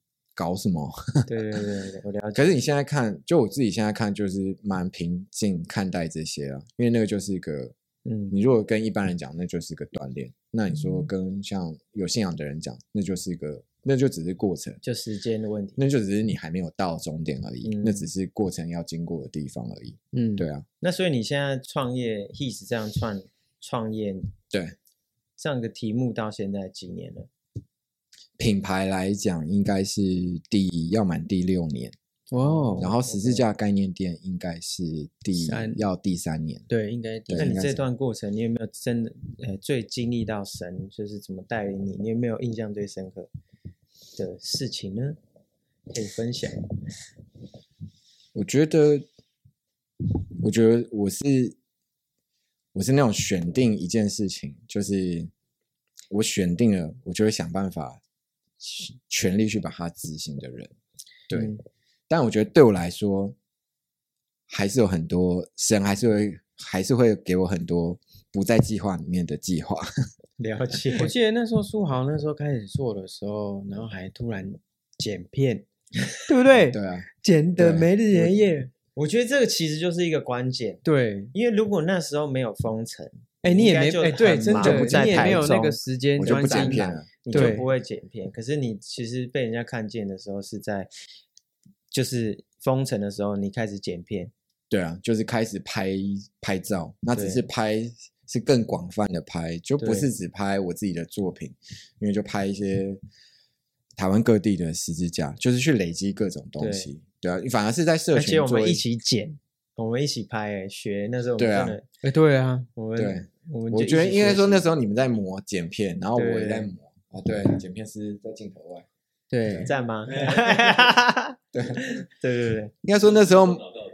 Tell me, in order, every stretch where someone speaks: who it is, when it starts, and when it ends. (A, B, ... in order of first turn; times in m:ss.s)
0:00.4-0:01.6 A
0:01.3-0:02.6 B
0:02.3-0:07.8 A
0:08.0-0:08.4 B
0:08.3-0:14.8 A
0:14.8-0:15.8 B
0:15.8-0:20.7 A
0:17.6-0:18.1 B
0:20.1-0:20.5 C
0:20.8-0:24.3 B
0:24.5-0:24.8 A
0:25.4-0:27.3 B
0:28.4-0:32.0 A
0:32.3-0:32.9 C
0:32.4-0:33.5 B
0:32.8-0:36.7 A
0:35.4-0:35.8 C
0:36.7-0:37.5 C
0:37.3-0:37.8 A
0:37.4-0:43.3 B
0:44.2-0:45.2 B
0:45.9-0:46.7 B
0:48.4-0:49.1 A
0:50.4-0:51.6 A
0:52.7-0:55.3 A
0:56.1-0:58.0 A
0:58.6-1:00.7 A
1:01.3-1:01.5 A
1:01.3-1:01.6 B
1:02.1-1:03.4 A
1:04.5-1:09.9 A
1:10.4-1:11.1 B
1:11.0-1:15.6 C
1:16.3-1:18.7 C
1:16.5-1:17.1 A
1:17.6-1:18.3 A
1:19.0-1:30.9 B
1:20.8-1:21.3 C
1:23.4-1:27.7 C
1:24.5-1:25.5 A
1:26.2-1:27.6 A
1:31.9-1:34.3 B
1:34.7-1:43.0 A
1:37.2-1:37.4 B
1:39.8-1:40.1 B
1:44.0-1:48.8 A
1:46.6-1:46.9 B
1:48.1-1:51.9 B
1:51.4-1:51.8 A
1:52.0-1:52.7 C
1:52.8-1:54.6 B
1:53.0-1:58.9 A
1:56.2-1:56.7 B
1:59.3-1:59.7 C
1:59.7-2:02.7 B
2:01.5-2:01.9 A
2:02.8-2:03.7 A